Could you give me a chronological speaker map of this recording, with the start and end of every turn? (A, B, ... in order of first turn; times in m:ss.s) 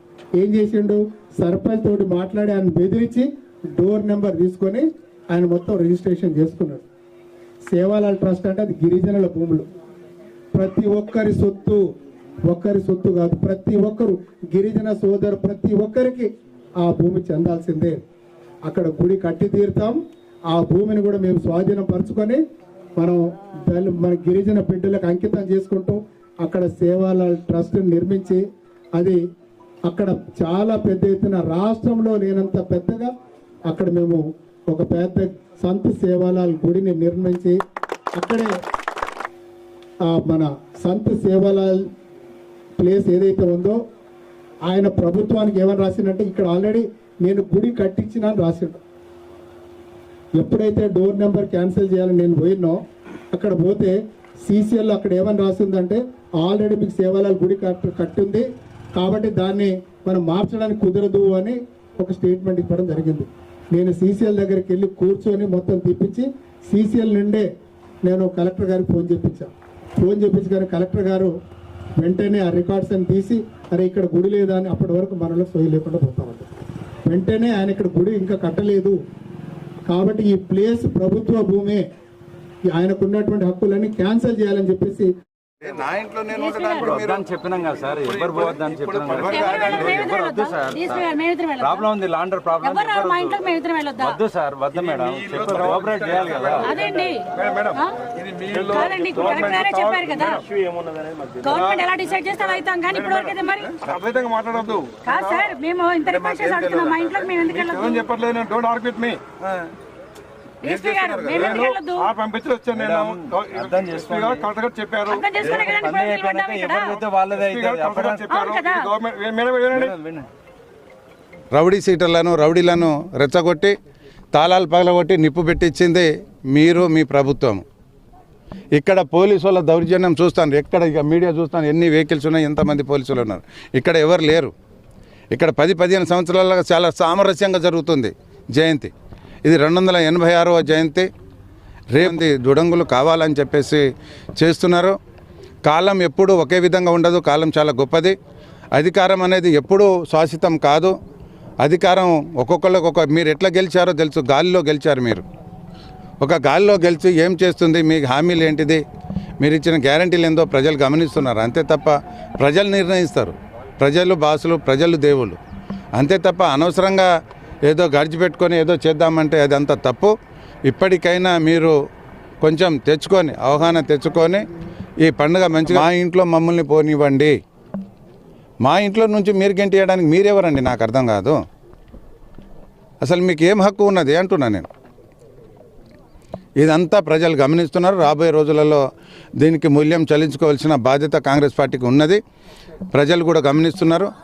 0:00.4-0:06.9 A
0:07.7-0:09.7 A
0:10.5-0:11.8 A
0:12.5-0:18.0 A
0:18.6-0:22.4 A
0:23.0-0:28.4 A
0:29.9-0:33.1 A
0:33.7-0:37.6 A
0:38.2-0:38.5 A
0:40.0-0:41.9 A
0:42.8-0:43.8 A
0:44.7-0:48.8 A
0:50.4-0:52.8 A
0:53.3-1:07.5 A
1:08.0-1:11.3 A
1:12.0-1:16.5 A
1:17.1-1:19.0 A
1:19.9-1:21.8 A
1:22.7-1:25.1 A
1:25.6-1:27.2 B
1:26.3-1:27.1 C
1:26.8-1:33.4 D
1:28.0-1:28.6 E
1:28.6-1:30.3 B
1:29.2-1:31.9 C
1:32.6-1:34.2 C
1:34.0-1:36.8 D
1:34.7-1:40.4 E
1:36.6-1:38.0 C
1:38.6-1:40.5 C
1:40.6-1:41.4 D
1:41.4-1:43.8 C
1:41.4-1:41.9 E
1:42.8-1:45.5 E
1:45.0-1:48.1 C
1:46.0-1:47.3 B
1:47.4-1:49.4 E
1:50.6-1:52.1 C
1:50.6-1:51.7 B
1:51.3-1:55.6 E
1:52.7-1:54.5 D
1:55.1-1:57.0 C
1:55.4-1:58.3 D
1:56.9-2:00.0 E
1:58.3-1:58.9 C
1:59.7-2:00.3 D
2:01.5-2:03.8 B
2:04.3-2:07.6 B
2:08.8-2:14.5 B
2:15.3-2:18.9 B
2:19.4-2:21.1 B
2:21.9-2:23.9 B
2:24.4-2:25.0 B
2:25.7-2:28.2 B
2:28.8-2:30.9 B
2:31.6-2:35.2 B
2:36.2-2:38.8 B
2:39.4-2:45.4 B
2:46.0-2:47.1 B
2:47.7-2:50.1 B
2:50.7-2:51.8 B
2:52.4-2:54.4 B
2:55.0-2:57.4 B
2:58.6-3:01.4 B
3:03.0-3:04.7 B
3:06.6-3:08.8 B
3:09.4-3:12.2 B
3:12.9-3:14.1 B